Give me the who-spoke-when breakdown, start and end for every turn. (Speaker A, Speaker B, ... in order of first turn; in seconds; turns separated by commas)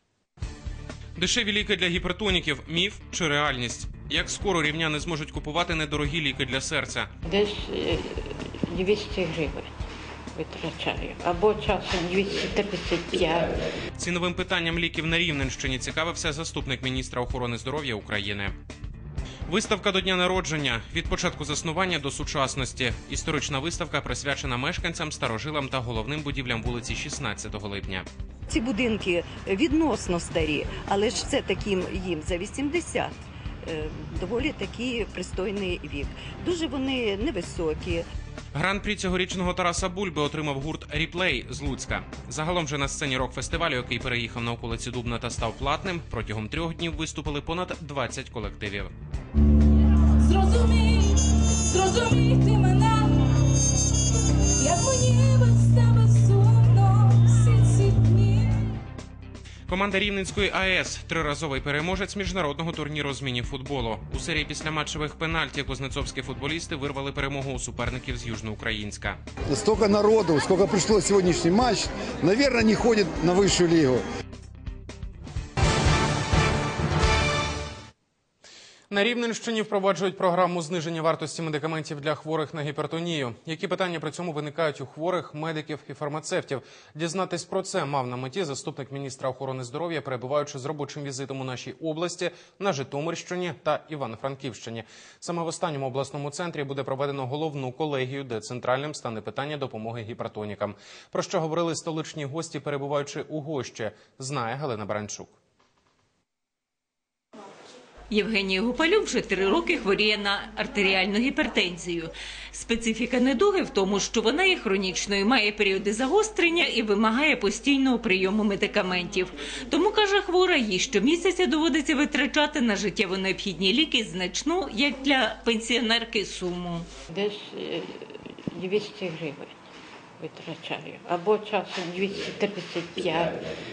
Speaker A: 1.2-7.1, Speaker B: 7.2-9.7, Speaker B: 10.3-13.6, Speaker A: 14.0-18.5, Speaker A: 19.5-28.1, Speaker C: 28.5-38.0, Speaker A: 38.5-48.9, Speaker D: 50.2-53.1, Speaker D: 54.6-58.5, Speaker A: 59.7-69.2, Speaker E: 69.5-74.0, Speaker A: 78.9-105.3, Speaker F: 108.1-126.9, Speaker B: 127.1-129.5, Speaker B: 130.2-133.4